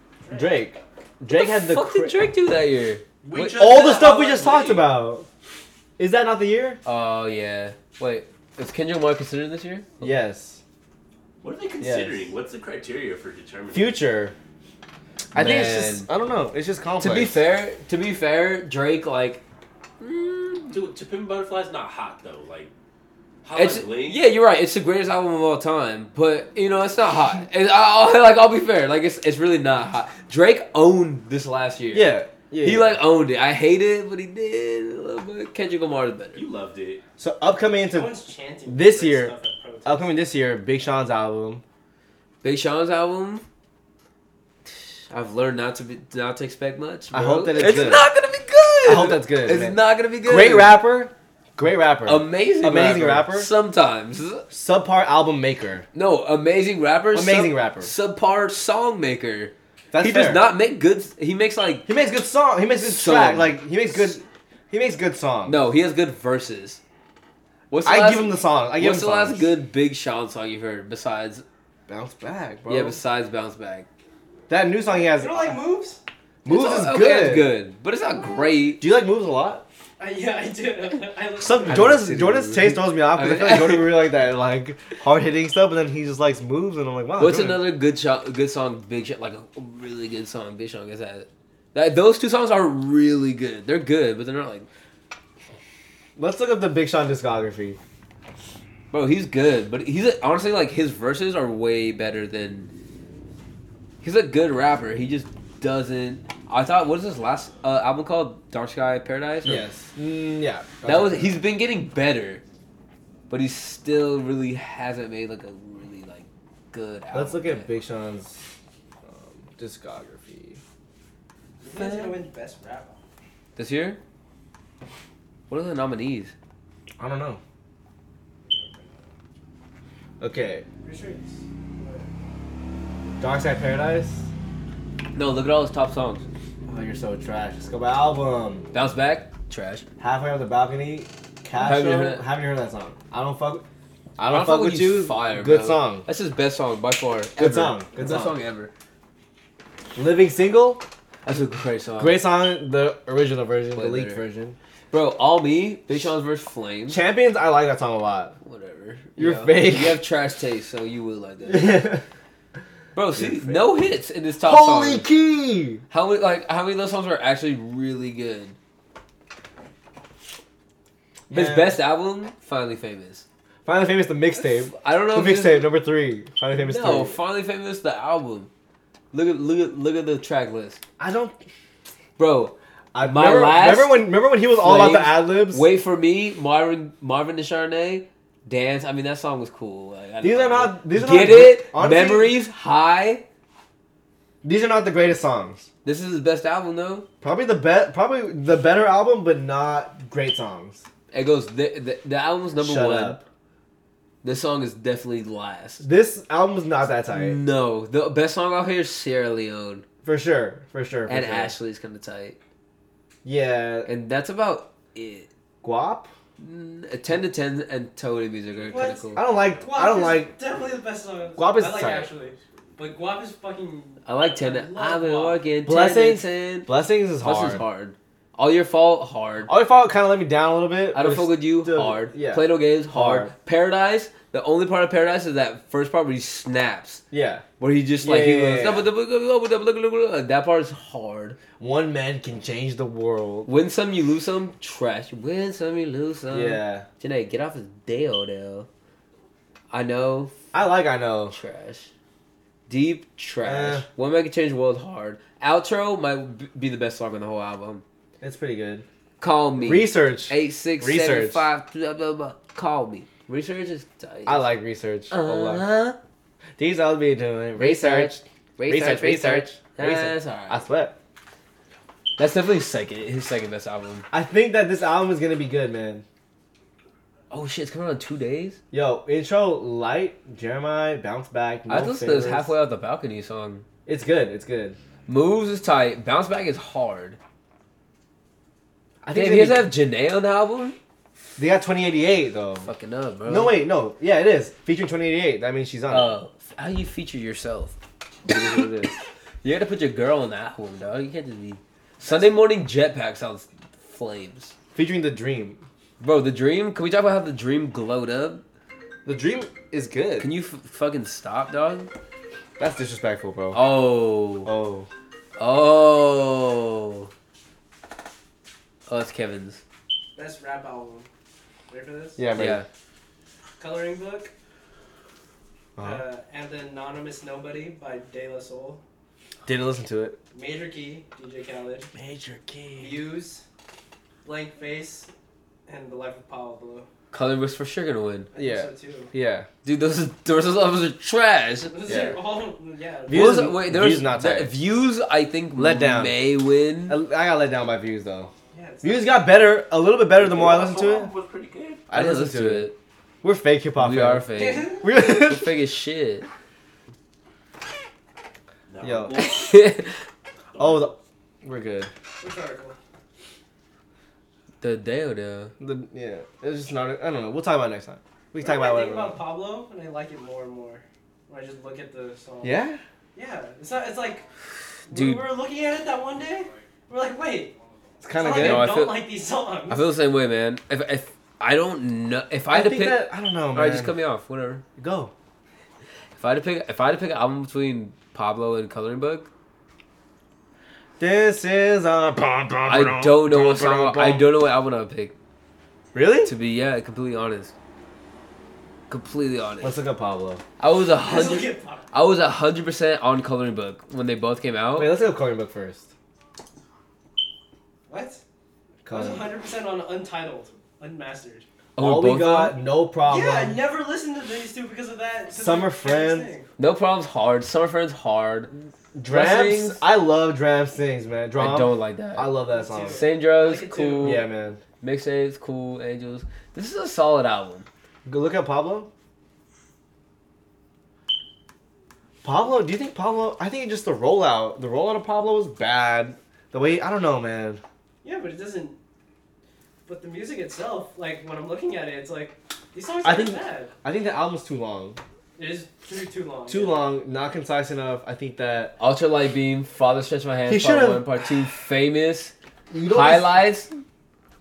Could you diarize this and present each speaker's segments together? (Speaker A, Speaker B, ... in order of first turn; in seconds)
Speaker A: 0.2-0.6, 37.9-40.1, 75.1-76.0, 80.0-81.9, 121.6-123.0, 128.4-129.0, 130.8-132.1, 218.7-225.4, 320.2-321.1, 321.7-322.2, 323.6-324.3, 325.8-328.8, 330.3-331.9, 332.8-333.4, 334.2-335.1, 335.7-336.9, 338.3-339.1, 341.7-343.4, 348.5-349.3, 354.4-354.8, 362.2-362.8, 368.4-372.6, 373.1-374.2, 374.9-377.6, 378.1-379.9, 401.0-401.9, 407.9-408.2, 408.9-411.5, 413.1-416.5, 422.5-424.3, 438.0-438.8, 439.9-443.7, 445.4-446.9
Speaker B: 0.3-2.2, 3.6-5.3, 6.0-6.8, 10.0-10.6, 11.8-12.3, 13.7-14.4, 15.3-17.4, 31.9-33.0, 37.2-38.1, 38.7-39.3, 39.9-41.6, 47.1-48.1, 48.8-53.5, 54.5-55.9, 57.1-57.9, 59.9-60.5, 61.9-65.6, 67.8-69.5, 71.9-73.0, 74.5-75.5, 76.4-77.5, 78.8-79.7, 81.4-87.7, 96.2-97.8, 109.4-111.4, 117.1-118.4, 119.0-120.6, 127.0-127.4, 130.2-130.7, 133.2-134.3, 136.7-138.7, 140.0-143.7, 144.2-146.1, 147.4-148.3, 149.9-150.8, 152.0-154.6, 156.9-158.3, 159.2-160.0, 161.5-162.0, 163.2-163.7, 164.4-165.8, 171.3-171.8, 173.7-177.2, 181.0-181.4, 182.9-185.7, 190.2-192.3, 194.4-195.7, 197.2-200.8, 202.6-203.2, 205.8-207.4, 210.0-211.5, 213.2-213.9, 215.6-216.1, 219.1-220.3, 221.4-222.1, 225.7-227.6, 229.5-233.3, 237.1-237.4, 238.0-238.9, 241.6-243.5, 246.3-246.9, 250.5-251.3, 253.4-253.9, 258.2-258.9, 259.6-261.4, 264.3-265.6, 266.6-271.0, 274.1-276.0, 278.7-282.5, 283.9-284.8, 289.0-289.7, 291.4-292.7, 293.3-296.2, 302.0-302.4, 304.8-305.6, 309.1-310.3, 312.6-313.7, 314.4-314.9, 322.2-322.6, 325.8-326.0, 329.4-330.2, 338.4-339.5, 341.9-342.2, 343.1-344.5, 345.6-346.2, 346.9-348.3, 348.8-351.1, 351.9-352.7, 353.2-354.3, 354.8-355.5, 358.8-359.2, 360.6-361.9, 365.6-369.2, 372.4-372.8, 378.0-378.8, 382.5-383.9, 384.8-385.1, 391.0-394.3, 395.9-396.3, 399.6-400.4, 404.8-405.9, 408.9-409.3, 411.8-413.6, 415.3-416.3, 418.9-423.1, 424.0-424.6, 428.1-428.9, 432.2-437.6, 443.0-445.0, 446.5-448.8, 450.5-451.1, 452.7-453.4
Speaker C: 1.3-3.7, 6.8-10.2, 15.3-16.1, 17.0-19.4, 20.0-20.8, 23.6-36.4, 42.4-43.5, 45.1-50.7, 52.0-54.5, 56.0-61.9, 62.8-63.6, 65.5-66.8, 67.7-71.4, 72.7-73.9, 76.5-78.8, 81.7-84.1, 87.2-94.7, 98.9-102.7, 104.0-109.7, 110.8-112.4, 113.3-117.7, 121.8-122.2, 123.6-124.0, 125.5-126.3, 135.1-136.2, 138.7-139.8, 141.6-142.2, 144.3-148.7, 151.2-152.2, 153.7-154.2, 154.9-157.0, 158.4-162.0, 162.9-165.1, 165.9-168.6, 171.3-173.2, 174.4-175.7, 176.6-178.5, 179.1-180.8, 182.2-193.2, 195.8-197.1, 201.1-203.2, 204.2-205.8, 207.1-209.8, 211.1-212.4, 213.9-215.3, 216.4-219.2, 224.1-226.7, 227.2-229.5, 230.9-237.0, 237.6-241.4, 243.5-248.7, 249.7-250.3, 251.3-251.9, 252.7-257.8, 259.2-264.5, 265.1-266.0, 267.6-270.6, 272.2-274.1, 277.3-278.6, 281.7-283.6, 285.1-287.2, 289.1-290.8, 292.6-293.6, 295.9-304.5, 306.0-308.4, 310.2-311.9, 313.5-314.5, 315.4-317.1, 318.9-319.6, 322.4-322.7, 331.9-333.0, 337.1-338.3, 339.6-341.8, 343.1-347.0, 351.9-352.8, 353.8-356.3, 359.2-359.9, 364.6-365.5, 374.9-375.3, 378.4-379.1, 379.7-384.6, 386.2-389.3, 392.7-395.1, 396.3-397.5, 398.9-399.8, 400.6-404.9, 411.8-412.6, 416.6-419.8, 421.4-422.4, 422.9-424.3, 424.8-427.7, 448.8-453.7
Speaker D: 3.2-4.9, 11.4-13.9, 20.7-22.7, 23.4-24.2, 36.3-37.0, 350.1-351.9, 358.7-359.6, 360.5-360.9